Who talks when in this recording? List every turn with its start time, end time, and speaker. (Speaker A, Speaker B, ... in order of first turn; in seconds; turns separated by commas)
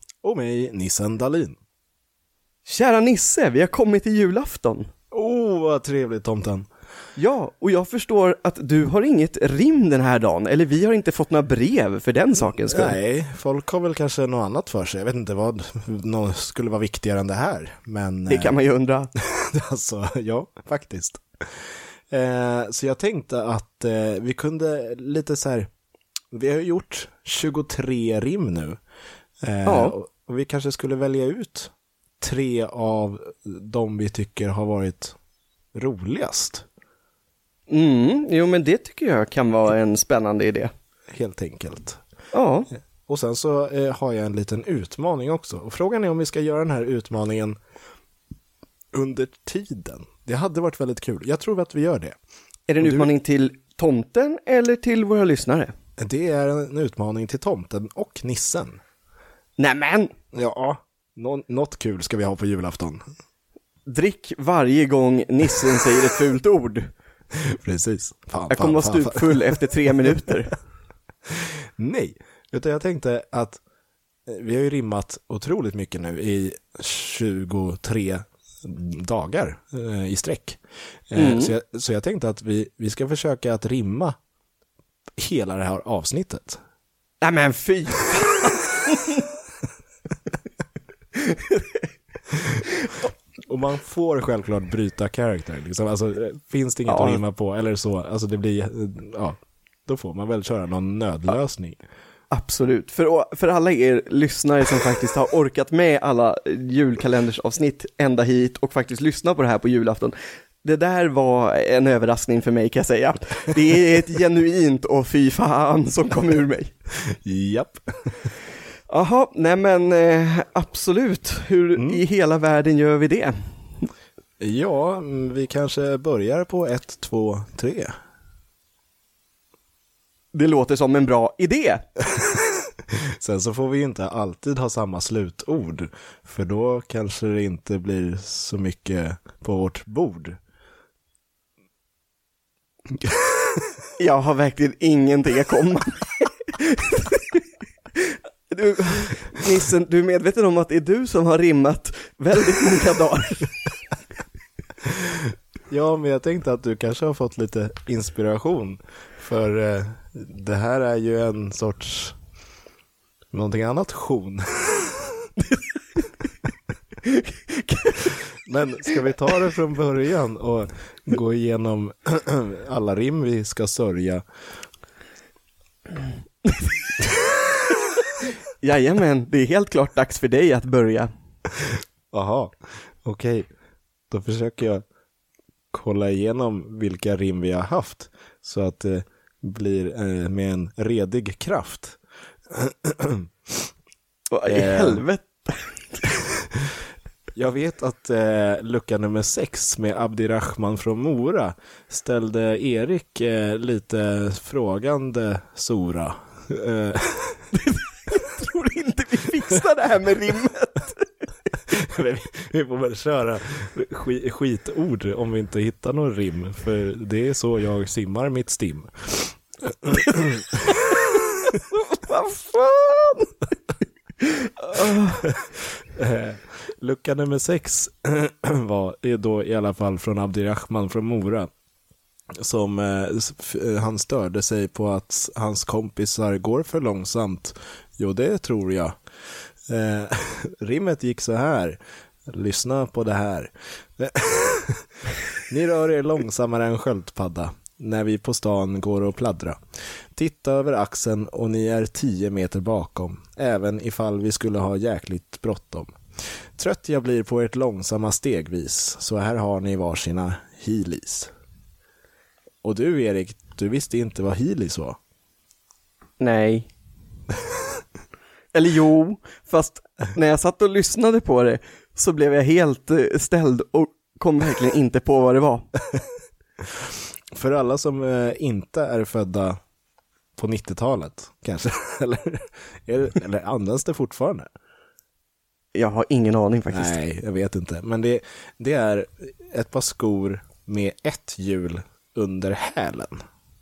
Speaker A: 0.2-1.6, Speaker B: 2.6-4.9, Speaker A: 5.1-6.7, Speaker B: 7.2-13.0, Speaker A: 12.4-18.6, Speaker B: 18.3-19.1, Speaker A: 19.2-25.7, Speaker A: 26.3-28.8, Speaker A: 29.4-35.2, Speaker B: 29.6-29.9, Speaker A: 35.7-36.7, Speaker B: 37.7-40.7, Speaker A: 41.1-42.0, Speaker B: 42.3-42.7, Speaker A: 43.1-47.6, Speaker A: 48.9-52.2, Speaker B: 52.7-55.7, Speaker A: 52.8-53.1, Speaker A: 56.0-58.8, Speaker B: 59.6-60.1, Speaker A: 60.3-63.0, Speaker B: 63.9-66.9, Speaker A: 67.3-70.3, Speaker B: 68.5-70.5, Speaker A: 71.3-73.6, Speaker A: 74.3-84.2, Speaker B: 81.2-81.5, Speaker A: 85.2-86.6, Speaker B: 87.2-89.3, Speaker B: 91.1-91.9, Speaker A: 92.3-92.6, Speaker A: 93.5-101.8, Speaker B: 96.9-97.2, Speaker B: 102.3-116.7, Speaker A: 117.1-118.3, Speaker B: 118.9-123.8, Speaker A: 121.8-122.0, Speaker A: 124.4-127.9, Speaker B: 130.3-131.8, Speaker A: 132.2-132.6, Speaker A: 133.2-140.4, Speaker B: 144.0-147.4, Speaker B: 147.9-153.6, Speaker A: 154.8-162.2, Speaker A: 163.3-165.3, Speaker B: 165.5-166.0, Speaker B: 167.0-168.1, Speaker A: 168.4-174.2, Speaker B: 178.6-181.1, Speaker A: 181.7-183.5, Speaker A: 184.1-184.8, Speaker A: 185.7-193.7, Speaker B: 194.3-196.0, Speaker A: 194.5-195.0, Speaker A: 197.3-207.5, Speaker B: 207.5-211.1, Speaker A: 211.7-221.2, Speaker B: 221.7-223.5, Speaker B: 224.2-225.2, Speaker A: 224.9-231.5, Speaker A: 232.4-239.0, Speaker A: 239.7-249.6, Speaker A: 250.1-256.0, Speaker A: 256.6-261.3, Speaker A: 262.6-265.0, Speaker B: 266.2-266.7, Speaker B: 268.5-275.7, Speaker A: 276.8-279.6, Speaker A: 280.4-284.5, Speaker B: 285.8-287.0, Speaker A: 286.7-293.1